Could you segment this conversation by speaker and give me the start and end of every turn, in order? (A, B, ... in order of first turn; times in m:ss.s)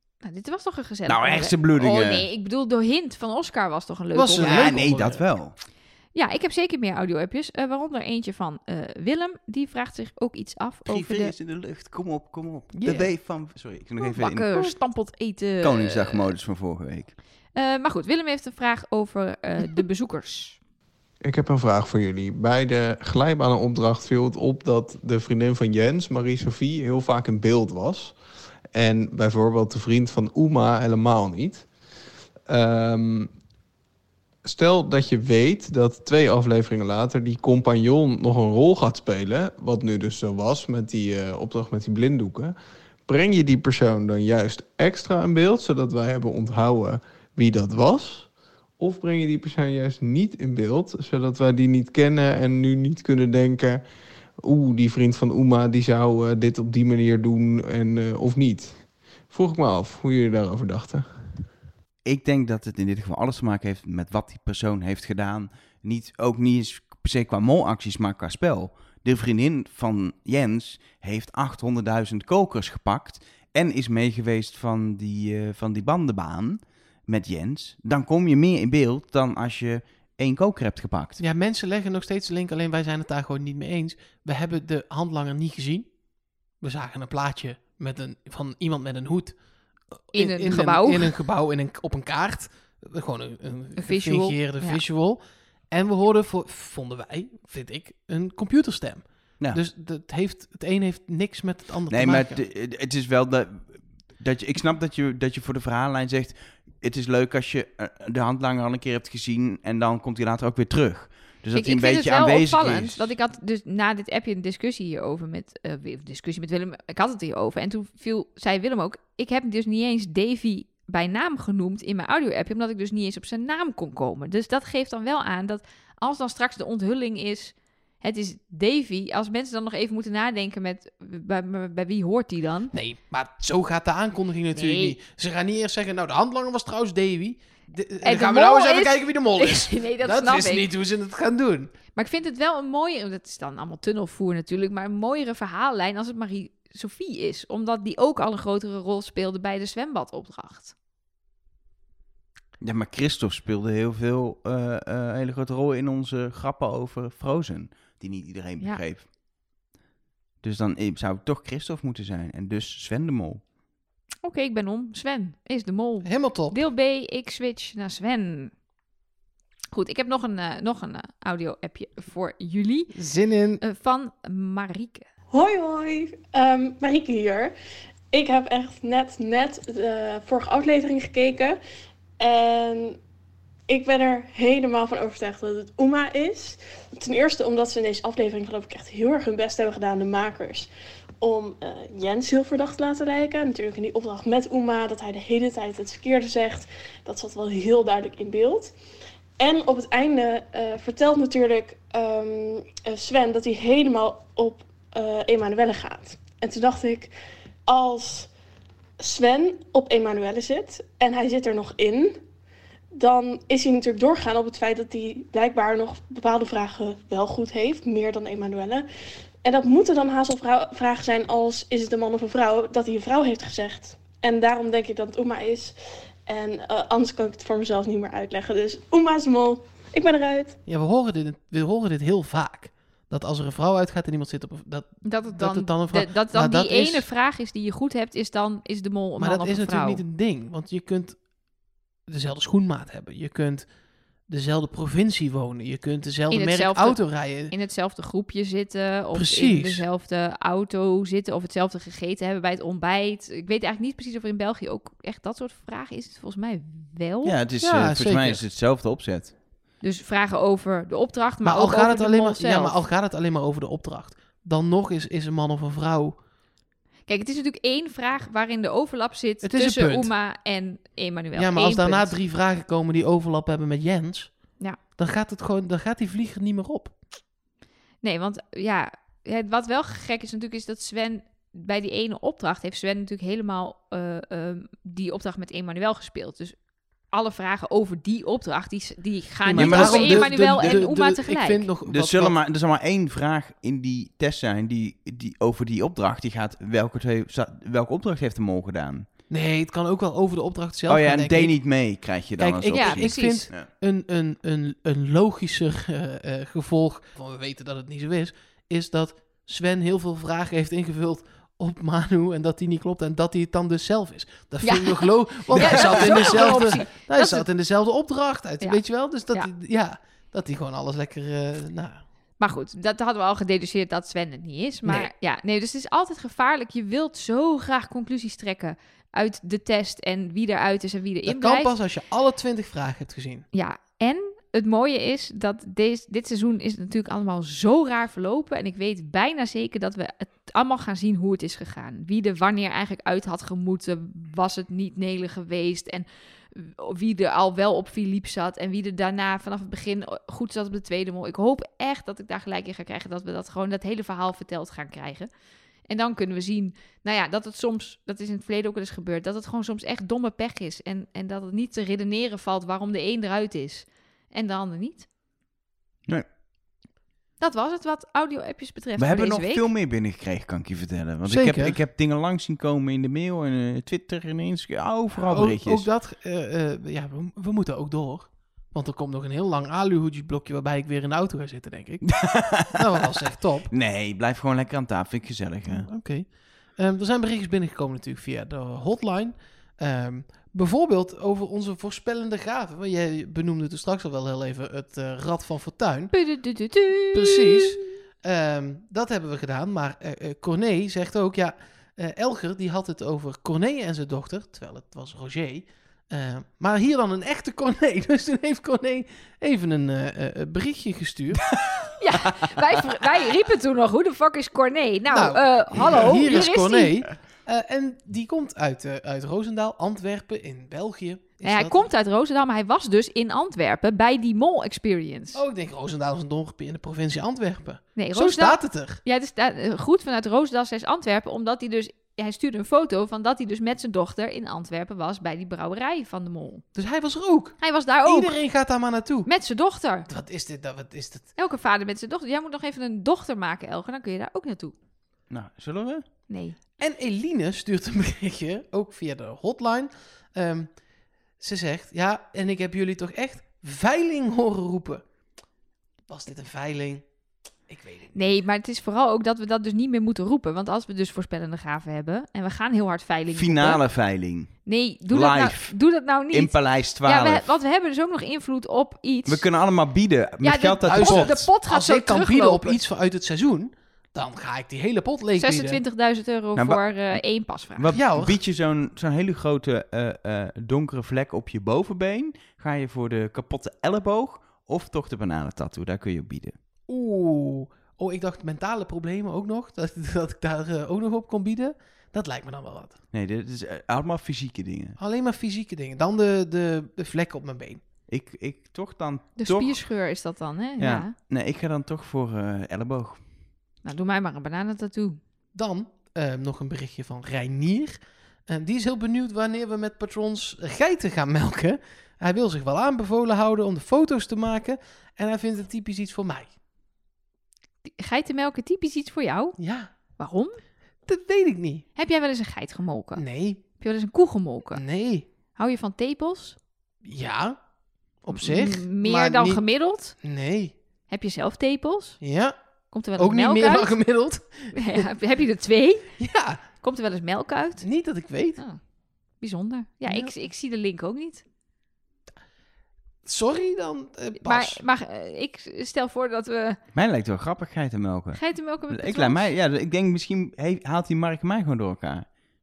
0:00.2-0:04.8 A
0:01.1-0:02.2 B
0:04.1-0:05.2 C
0:04.4-0:05.5 B
0:06.1-0:11.3 A
0:10.9-0:14.7 B
0:12.7-0:13.1 C
0:14.0-0:16.3 A
0:15.6-0:17.1 B
0:17.6-0:20.6 A
0:21.2-0:28.1 D
0:28.7-0:31.6 D
0:32.5-0:33.3 D
0:34.4-0:42.5 D
0:43.1-0:48.3 D
0:48.8-0:53.8 D
0:54.4-1:01.0 D
1:02.0-1:21.2 B
1:21.2-1:25.9 C
1:26.6-1:29.4 C
1:30.1-1:42.4 C
1:30.1-1:31.1 A
1:33.8-1:34.8 A
1:41.9-1:53.1 B
1:51.5-2:12.7 A
2:12.7-2:21.7 C
2:14.5-2:15.0 A
2:18.0-2:20.7 A
2:21.9-2:30.7 A
2:32.6-2:39.0 B
2:40.4-2:43.4 B
2:44.2-2:48.5 A
2:46.0-2:46.6 C
2:49.7-2:52.9 A
2:52.9-2:53.6 C
2:53.6-2:55.1 A
2:55.3-2:57.5 E
2:58.1-3:01.6 E
3:02.2-3:03.0 E
3:03.7-3:10.7 E
3:11.2-3:18.7 E
3:19.4-3:27.1 E
3:27.7-3:28.3 E
3:29.0-3:32.2 E
3:32.9-3:38.8 E
3:39.4-3:45.7 E
3:46.2-3:50.6 E
3:50.7-3:57.1 C
3:55.0-4:00.0 A
3:59.2-4:01.2 C
4:02.1-4:03.7 C
4:04.3-4:07.5 C
4:06.3-4:17.4 A
4:09.1-4:09.8 C
4:17.2-4:19.3 B
4:17.6-4:18.4 C
4:19.8-4:22.8 A
4:21.4-4:26.2 C
4:27.1-4:32.1 A
4:29.4-4:30.1 C
4:31.3-4:34.4 C
4:35.0-4:36.9 C
4:38.0-4:46.6 A
4:47.1-4:51.7 A
4:49.4-4:52.4 C
4:49.6-4:50.3 B
4:51.8-4:59.1 B
4:59.3-5:01.6 C
5:00.9-5:03.7 B
5:02.4-5:22.0 C
5:02.7-5:03.5 A
5:14.6-5:17.5 A
5:15.6-5:16.4 B
5:22.4-5:31.7 A
5:31.2-5:33.4 C
5:33.5-5:55.3 A
5:55.9-6:05.0 A
6:07.4-6:09.7 A
6:09.0-6:15.8 B
6:11.2-6:11.8 C
6:15.2-6:23.7 C
6:22.1-6:22.9 B
6:23.7-6:25.9 B
6:25.7-6:36.1 C
6:36.1-6:37.8 A
6:37.1-6:51.4 C
6:51.6-6:52.5 B
6:52.0-6:56.9 A
6:55.1-7:01.9 C
7:01.4-7:05.4 A
7:05.3-7:09.0 C
7:08.0-7:16.6 A
7:16.7-7:19.3 C
7:17.6-7:18.3 A
7:19.2-7:20.1 A
7:20.1-7:21.3 C
7:21.4-7:24.7 A
7:25.3-7:26.0 B
7:26.3-7:26.6 A
7:26.8-7:30.7 C
7:31.4-7:35.0 C
7:36.1-7:37.0 C
7:37.7-7:38.1 C
7:38.1-7:43.8 A
7:43.3-7:44.5 B
7:44.6-7:49.4 A
7:45.1-7:45.8 B
7:46.3-7:47.4 B
7:49.3-7:51.3 B
7:50.4-7:52.8 A
7:50.8-7:55.8 C
7:55.4-7:57.9 A
7:56.6-7:57.2 B
7:57.8-8:06.6 B
7:57.9-7:58.4 C
8:06.9-8:13.0 C
8:13.1-8:15.0 B
8:15.0-8:17.8 C
8:18.1-8:19.8 B
8:19.4-8:21.1 A
8:20.8-8:23.2 B
8:23.8-8:25.2 A
8:25.5-8:36.5 C
8:37.8-8:39.6 A
8:39.6-8:39.9 C
8:40.2-8:40.6 A
8:41.1-8:41.8 C
8:42.0-8:43.2 A
8:43.2-8:43.6 C
8:43.8-8:44.8 A
8:44.7-8:45.2 C
8:45.6-8:46.6 A
8:47.0-8:47.6 C
8:48.2-8:49.6 C
8:48.3-8:50.2 A
8:50.2-8:50.7 C
8:51.1-8:52.2 A
8:52.2-8:52.6 C
8:52.9-8:53.9 A
8:53.2-8:55.1 C
8:54.7-8:56.1 A
8:56.2-8:56.6 C
8:56.8-8:57.8 A
8:57.8-8:58.6 C
8:59.4-9:01.4 A
9:00.1-9:00.3 C
9:03.2-9:04.8 C
9:04.4-9:06.8 A
9:06.9-9:12.2 B
9:08.3-9:09.5 A